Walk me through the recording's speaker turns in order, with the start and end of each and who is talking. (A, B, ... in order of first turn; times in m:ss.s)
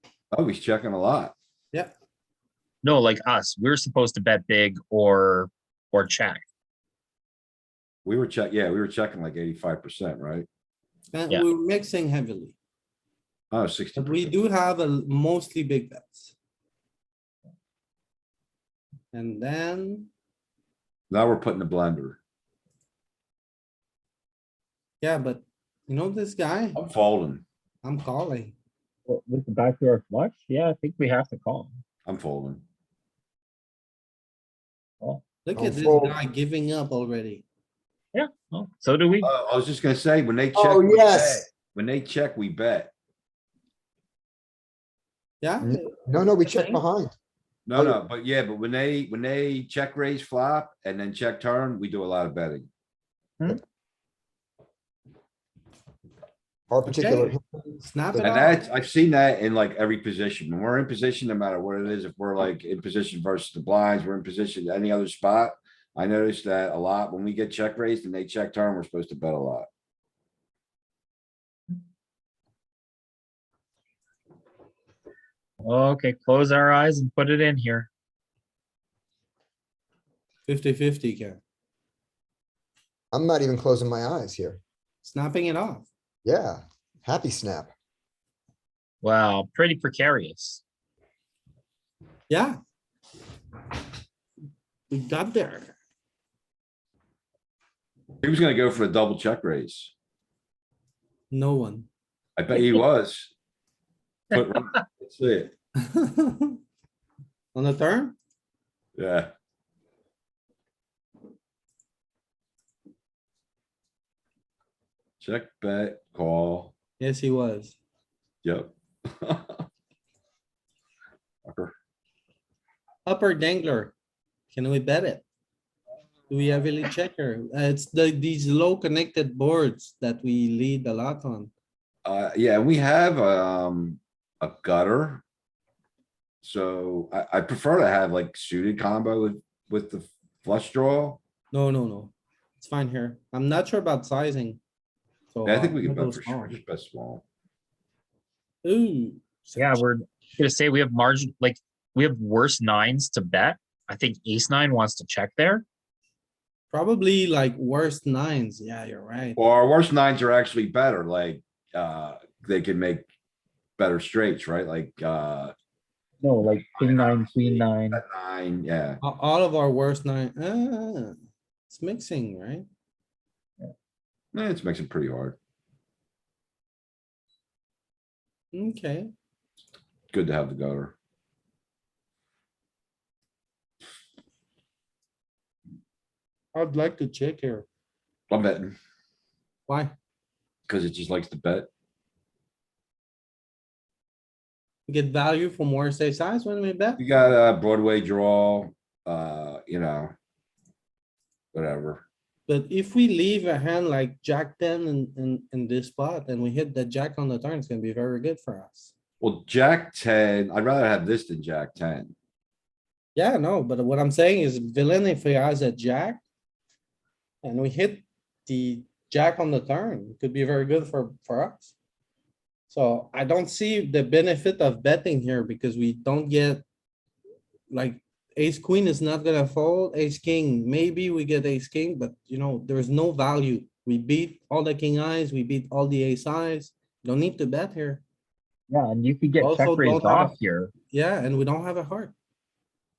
0:00.3-0:01.4 A
0:02.8-0:06.4 B
0:08.0-0:10.5 A
0:11.1-0:12.6 C
0:13.5-0:14.4 A
0:14.0-0:16.4 C
0:19.1-0:20.1 C
0:21.1-0:22.2 A
0:25.0-0:26.8 C
0:26.8-0:27.4 A
0:27.8-0:28.6 C
0:29.1-0:31.8 B
0:32.1-0:32.6 A
0:35.4-0:37.4 C
0:35.6-0:36.2 D
0:38.1-0:39.3 B
0:39.2-0:42.9 A
0:40.6-0:41.5 D
0:45.4-0:46.8 C
0:45.6-0:47.1 D
0:47.7-0:52.7 A
0:56.7-0:57.8 D
0:56.9-0:58.7 C
0:58.1-1:09.7 A
1:15.6-1:17.9 B
1:20.5-1:21.4 C
1:23.1-1:24.6 D
1:25.0-1:25.9 C
1:26.2-1:27.7 D
1:29.0-1:30.6 B
1:32.3-1:32.6 C
1:34.9-1:35.7 C
1:38.2-1:39.9 A
1:41.3-1:41.9 C
1:42.4-1:43.3 A
1:44.3-1:45.5 A
1:45.8-1:46.6 C
1:47.6-1:48.2 C
1:49.0-1:49.3 A
1:55.2-1:56.7 A
1:57.0-1:57.8 C
1:58.4-1:59.6 A
2:01.5-2:01.7 A
2:03.1-2:03.9 C
2:04.5-2:05.2 C
2:06.3-2:11.5 C
2:12.0-2:15.2 A
2:16.4-2:21.2 A
2:21.5-2:24.6 C
2:25.3-2:26.6 C
2:25.4-2:27.2 A
2:28.6-2:29.8 C
2:29.6-2:35.6 B
2:36.7-2:39.4 C
2:39.4-2:43.1 A
2:43.8-2:45.5 A
2:46.2-2:48.0 B
2:46.8-2:49.0 A
2:49.0-2:51.2 C
2:51.7-2:52.7 C
2:54.3-2:55.4 A
2:58.5-2:59.1 C
3:00.1-3:00.9 A
3:06.5-3:07.7 C
3:08.3-3:08.8 A
3:09.7-3:09.9 C
3:10.7-3:11.7 A
3:14.9-3:17.0 C
3:17.0-3:20.1 A
3:21.5-3:22.0 A
3:22.5-3:28.9 C
3:29.2-3:32.1 A
3:33.2-3:36.2 C
3:37.4-3:41.7 C
3:42.7-3:46.6 C
3:47.7-3:58.0 C
3:58.7-4:00.7 B
3:59.4-4:00.4 C
4:00.9-4:02.2 C